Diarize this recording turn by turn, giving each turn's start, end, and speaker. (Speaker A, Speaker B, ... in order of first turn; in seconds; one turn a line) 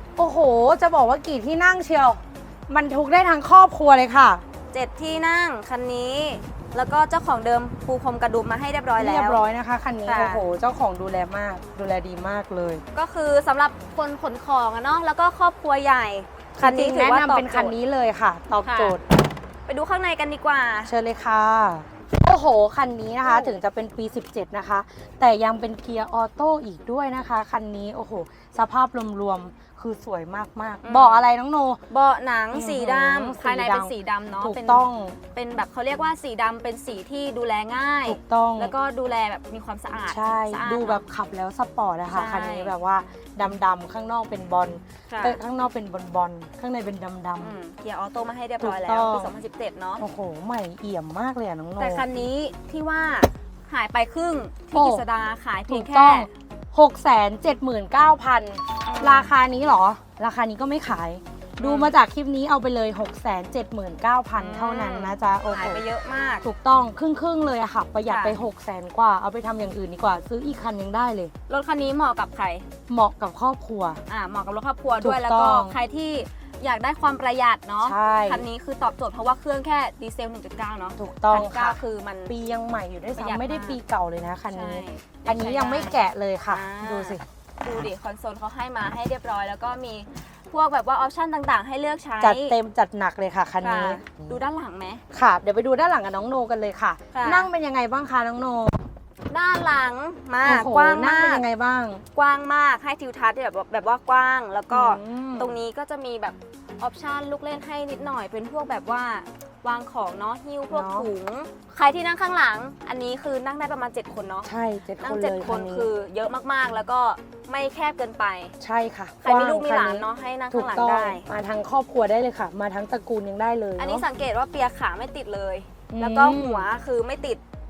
Speaker A: 0.2-4.4
Speaker B: 4.7-9.4
Speaker A: 9.0-12.8
Speaker B: 10.0-10.4
Speaker B: 12.9-17.7
Speaker A: 16.6-19.0
Speaker B: 18.6-19.0
Speaker B: 19.7-20.9
Speaker A: 20.9-31.8
Speaker B: 23.2-23.6
Speaker B: 30.8-31.2
Speaker B: 31.9-41.0
Speaker A: 32.5-35.2
Speaker A: 38.0-38.7
Speaker A: 40.1-47.5
Speaker B: 42.1-42.7
Speaker B: 45.1-45.4
Speaker B: 47.4-50.0
Speaker A: 48.6-49.3
Speaker A: 50.0-52.0
Speaker B: 51.8-56.3
Speaker A: 54.7-55.0
Speaker A: 55.7-65.8
Speaker B: 58.9-59.3
Speaker B: 61.6-61.9
Speaker B: 64.3-66.5
Speaker A: 66.4-71.3
Speaker B: 68.1-68.4
Speaker B: 71.5-72.7
Speaker A: 72.9-74.0
Speaker B: 74.1-82.3
Speaker A: 75.0-75.7
Speaker A: 77.8-78.5
Speaker A: 81.0-87.8
Speaker B: 83.1-83.8
Speaker B: 84.5-92.6
Speaker A: 92.2-94.4
Speaker B: 93.6-95.0
Speaker A: 95.1-98.8
Speaker B: 97.1-97.5
Speaker B: 99.3-101.5
Speaker A: 100.4-102.0
Speaker B: 102.1-118.5
Speaker A: 104.7-105.6
Speaker A: 110.7-111.1
Speaker A: 114.4-115.9
Speaker A: 118.6-124.0
Speaker B: 119.2-121.3
Speaker B: 123.8-127.4
Speaker A: 125.9-126.7